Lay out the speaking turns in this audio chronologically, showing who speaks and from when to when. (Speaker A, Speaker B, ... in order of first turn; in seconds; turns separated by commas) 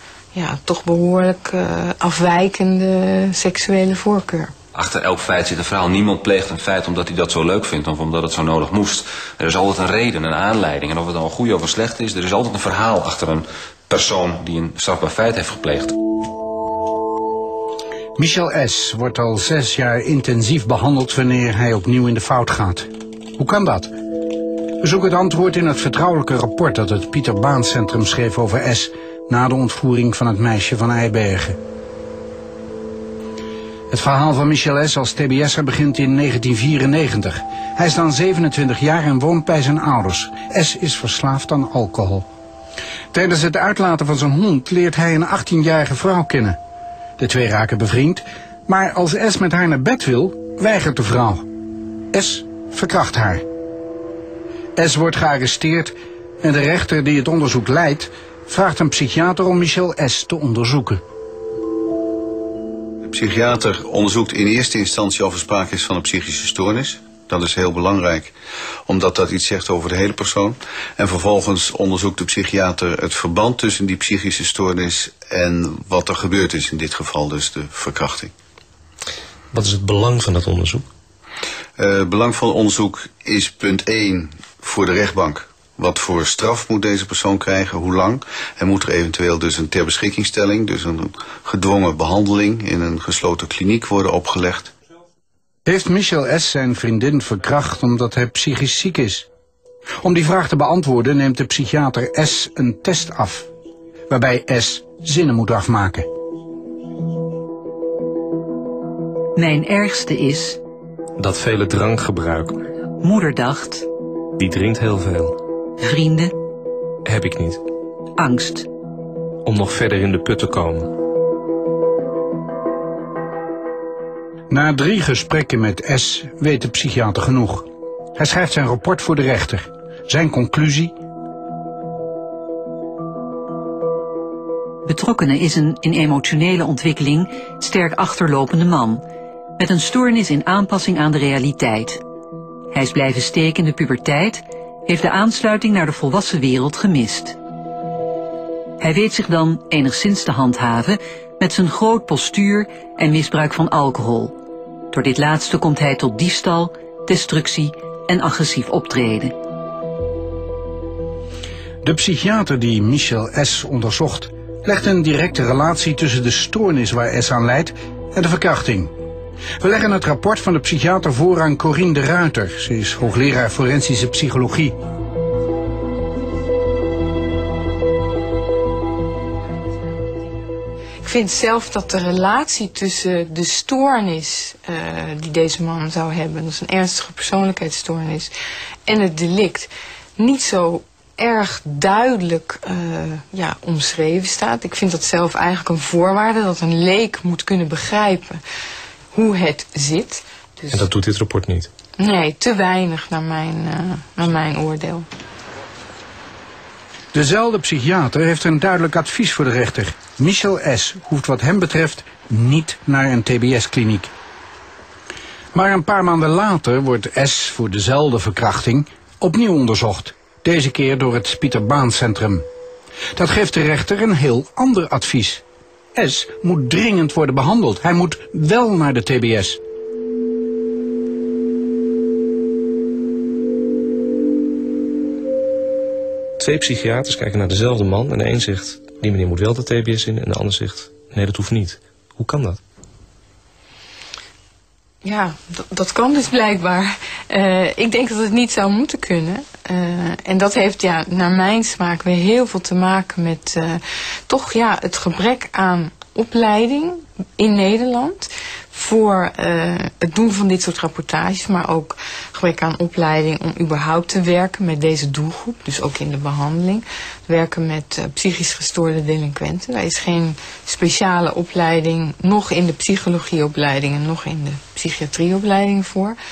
Speaker A: 0.3-4.5, Speaker B: 4.7-16.0, Speaker C: 18.1-23.9, Speaker C: 24.8-31.6, Speaker C: 33.9-42.3, Speaker C: 43.1-46.6, Speaker C: 47.2-51.5, Speaker C: 52.1-53.4, Speaker C: 54.8-61.0, Speaker D: 63.0-68.3, Speaker D: 68.8-78.3, Speaker E: 79.5-80.8, Speaker D: 81.8-94.7, Speaker C: 95.6-99.2, Speaker C: 100.0-103.5, Speaker C: 104.1-106.1, Speaker F: 109.3-110.6, Speaker E: 111.2-112.6, Speaker F: 113.0-113.9, Speaker E: 114.4-115.4, Speaker F: 115.8-116.3, Speaker E: 117.0-117.6, Speaker F: 118.2-118.7, Speaker E: 119.4-120.9, Speaker C: 124.5-130.9, Speaker F: 134.8-139.0, Speaker F: 139.6-142.0, Speaker F: 142.7-147.4, Speaker F: 148.8-154.3, Speaker F: 154.9-159.3, Speaker C: 161.8-168.9, Speaker C: 169.6-174.8, Speaker A: 181.0-188.3, Speaker A: 188.8-198.4, Speaker A: 199.1-200.8, Speaker E: 200.7-201.7, Speaker A: 202.0-205.1, Speaker C: 207.1-214.1, Speaker C: 215.5-222.4, Speaker C: 223.1-225.4, Speaker C: 225.9-229.6, Speaker E: 236.4-242.6, Speaker A: 245.0-276.2